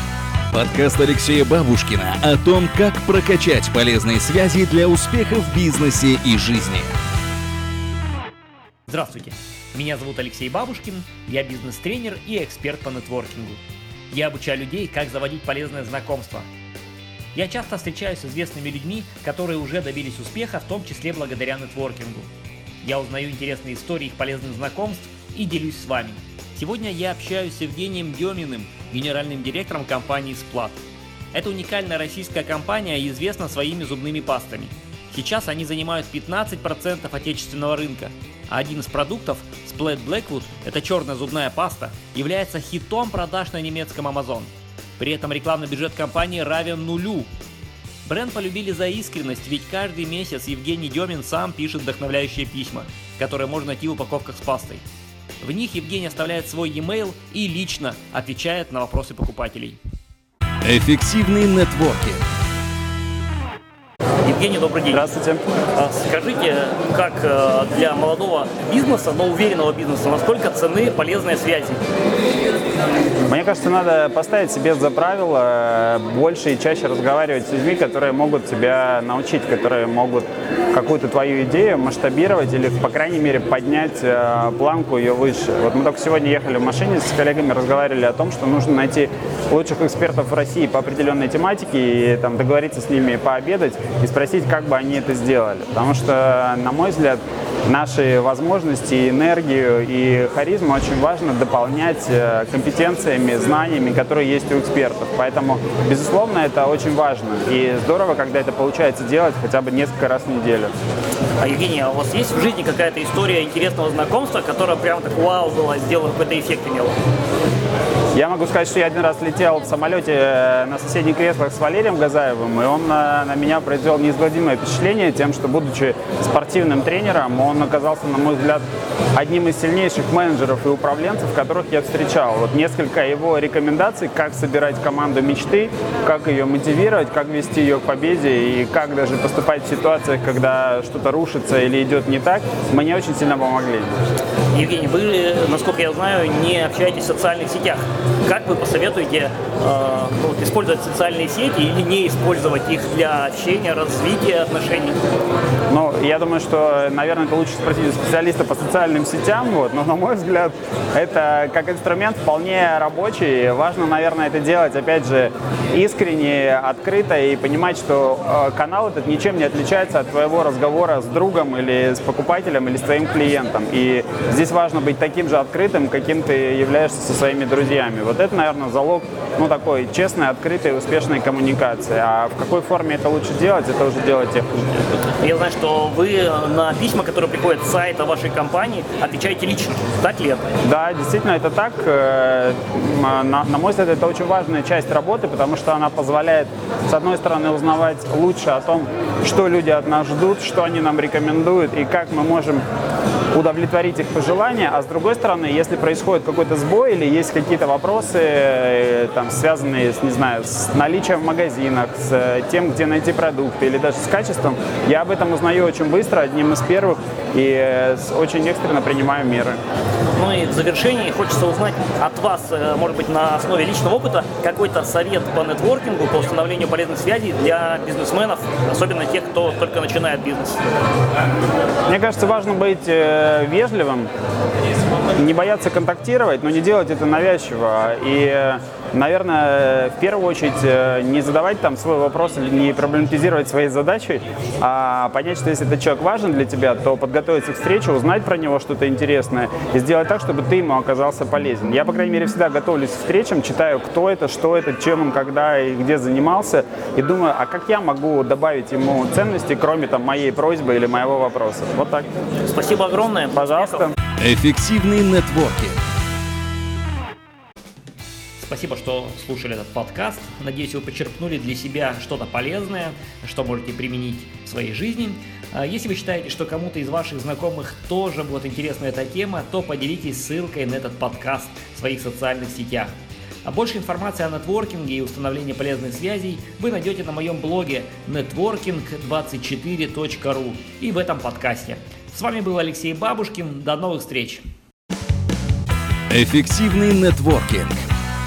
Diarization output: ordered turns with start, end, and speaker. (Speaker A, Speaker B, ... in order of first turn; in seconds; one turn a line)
Speaker A: 0.5-6.9
Speaker B: 8.9-16.5
Speaker B: 17.3-22.3
Speaker B: 22.8-30.8
Speaker B: 31.3-47.3
Speaker B: 48.0-54.8
Speaker B: 55.4-59.8
Speaker A: 60.6-62.2
Speaker B: 64.2-65.1
Speaker C: 64.9-65.4
Speaker B: 65.7-71.8
Speaker C: 73.3-110.7
Speaker B: 111.4-117.0
Speaker C: 118.1-128.6
Speaker C: 129.1-143.9
Speaker B: 144.5-155.0
Speaker C: 155.7-184.8
Speaker B: 185.2-190.5
Speaker C: 190.6-202.6
Speaker C: 203.3-219.6
Speaker B: 220.1-230.6
Speaker C: 231.9-234.1
Speaker C: 235.2-262.1
Speaker B: 262.4-263.9
Speaker C: 263.3-263.9
Speaker A: 264.2-265.8
Speaker B: 268.4-282.9
Speaker B: 283.4-294.4
Speaker A: 296.1-297.8